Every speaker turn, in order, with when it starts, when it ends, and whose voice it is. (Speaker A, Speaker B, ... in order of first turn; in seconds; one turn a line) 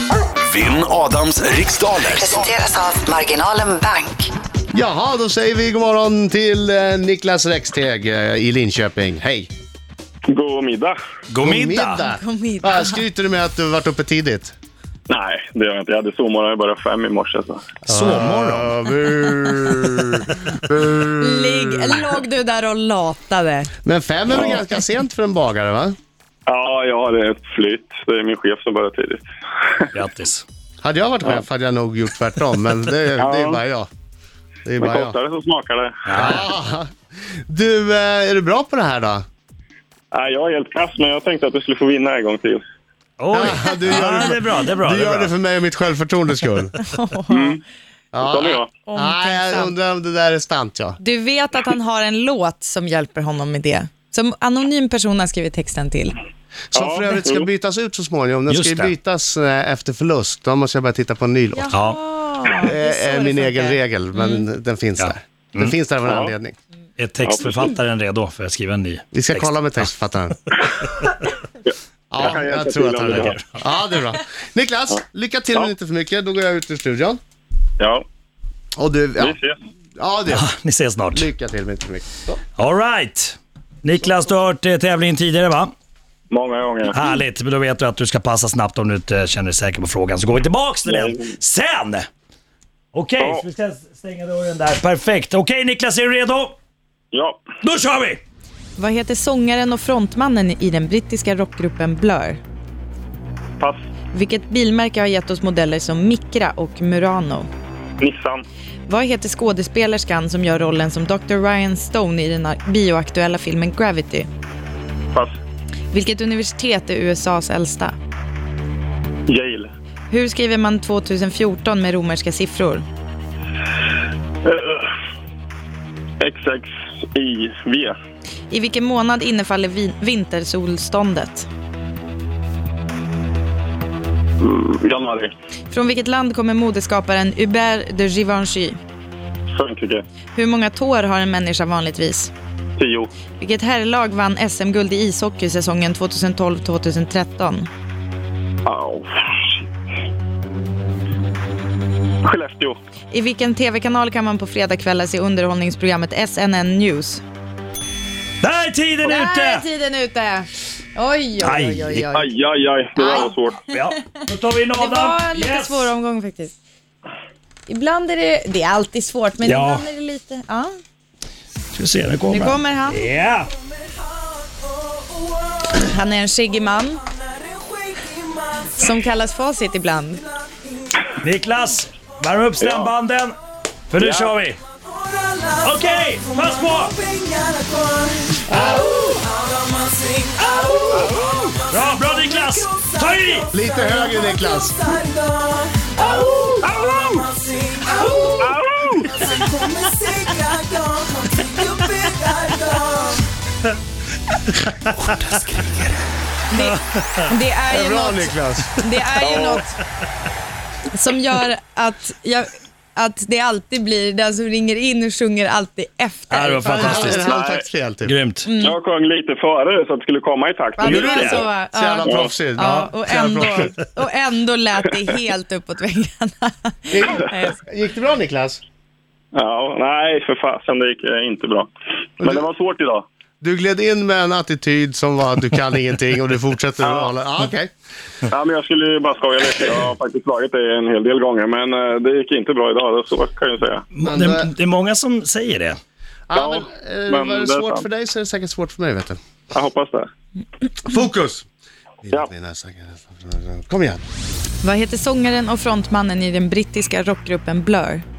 Speaker A: 0.4-2.6
Speaker B: 2.1-4.3
Speaker C: 4.7-9.5
Speaker D: 10.3-11.0
Speaker E: 11.3-12.0
Speaker C: 11.4-14.5
Speaker F: 12.0-13.0
Speaker D: 15.1-17.7
Speaker E: 17.9-18.8
Speaker C: 17.9-22.0
Speaker F: 21.2-23.7
Speaker C: 23.8-26.0
Speaker D: 24.3-24.6
Speaker D: 26.5-29.9
Speaker E: 29.9-30.4
Speaker C: 30.8-33.9
Speaker D: 33.2-33.6
Speaker C: 34.7-35.2
Speaker D: 34.8-36.1
Speaker E: 36.1-36.5
Speaker C: 36.1-36.9
Speaker C: 37.5-39.2
Speaker D: 40.1-42.6
Speaker E: 43.2-45.3
Speaker C: 43.3-46.8
Speaker F: 46.8-47.6
Speaker D: 47.3-47.6
Speaker C: 48.1-51.0
Speaker D: 48.2-48.7
Speaker F: 48.9-49.7
Speaker F: 51.0-56.2
Speaker C: 56.7-61.7
Speaker D: 56.8-57.5
Speaker E: 58.5-58.9
Speaker F: 61.5-64.4
Speaker E: 61.7-62.0
Speaker C: 62.6-66.6
Speaker E: 65.0-65.7
Speaker D: 66.0-66.3
Speaker E: 67.0-69.9
Speaker D: 67.2-67.7
Speaker C: 69.1-70.4
Speaker C: 72.1-77.2
Speaker D: 72.2-73.4
Speaker C: 78.8-79.4
Speaker D: 79.2-79.6
Speaker C: 80.0-80.5
Speaker E: 80.3-81.3
Speaker C: 81.1-82.4
Speaker E: 82.6-85.7
Speaker D: 86.3-87.0
Speaker E: 86.9-92.1
Speaker D: 90.8-91.3
Speaker E: 92.9-96.5
Speaker D: 93.2-93.4
Speaker D: 97.1-97.4
Speaker E: 97.6-98.2
Speaker F: 98.8-102.4
Speaker F: 104.1-107.5
Speaker D: 108.0-108.5
Speaker F: 108.9-114.3
Speaker F: 115.9-117.9
Speaker D: 119.3-119.7
Speaker F: 120.1-122.8
Speaker D: 124.4-124.9
Speaker D: 126.2-128.0
Speaker F: 128.5-131.5
Speaker D: 134.4-135.3
Speaker F: 135.7-138.8
Speaker D: 139.5-140.0
Speaker F: 140.3-142.3
Speaker D: 142.8-143.1
Speaker F: 143.4-147.7
Speaker D: 148.7-149.6
Speaker D: 152.2-152.8
Speaker F: 153.1-157.2
Speaker E: 158.4-159.7
Speaker F: 159.0-162.3
Speaker E: 161.4-162.1
Speaker D: 162.1-163.6
Speaker F: 163.0-164.2
Speaker E: 163.7-165.9
Speaker F: 164.7-166.5
Speaker F: 167.7-170.7
Speaker E: 169.4-169.9
Speaker E: 171.7-173.5
Speaker F: 172.3-173.0
Speaker F: 175.7-177.0
Speaker F: 178.6-180.2
Speaker E: 181.2-183.3
Speaker D: 182.6-182.9
Speaker E: 183.9-184.6
Speaker D: 184.0-184.3
Speaker E: 185.6-187.0
Speaker F: 187.1-188.3
Speaker C: 188.5-189.0
Speaker E: 188.5-189.0
Speaker F: 189.9-190.3
Speaker E: 190.6-193.5
Speaker D: 191.0-191.3
Speaker C: 193.5-194.8
Speaker F: 195.2-196.5
Speaker D: 196.6-197.2
Speaker D: 198.1-199.1
Speaker F: 199.6-199.9
Speaker F: 200.6-201.1
Speaker F: 201.6-202.8
Speaker E: 205.0-205.9
Speaker F: 206.5-209.8
Speaker E: 206.6-207.2
Speaker C: 207.7-208.8
Speaker D: 209.2-209.6
Speaker F: 210.9-217.2
Speaker E: 216.3-217.3
Speaker C: 216.7-218.1
Speaker D: 217.2-217.7
Speaker E: 218.0-218.5
Speaker F: 218.4-218.8
Speaker D: 218.6-221.5
Speaker F: 220.8-227.6
Speaker E: 220.8-221.4
Speaker C: 221.7-223.7
Speaker D: 222.0-222.3
Speaker E: 222.6-222.9
Speaker C: 226.9-228.6
Speaker D: 229.3-233.1
Speaker C: 233.4-237.7
Speaker D: 236.8-237.1
Speaker D: 238.3-243.9
Speaker E: 243.9-245.8
Speaker C: 244.0-244.5
Speaker C: 246.3-249.2
Speaker D: 246.3-247.9
Speaker D: 249.5-250.1
Speaker C: 250.8-251.5
Speaker C: 252.0-254.0
Speaker F: 254.6-258.0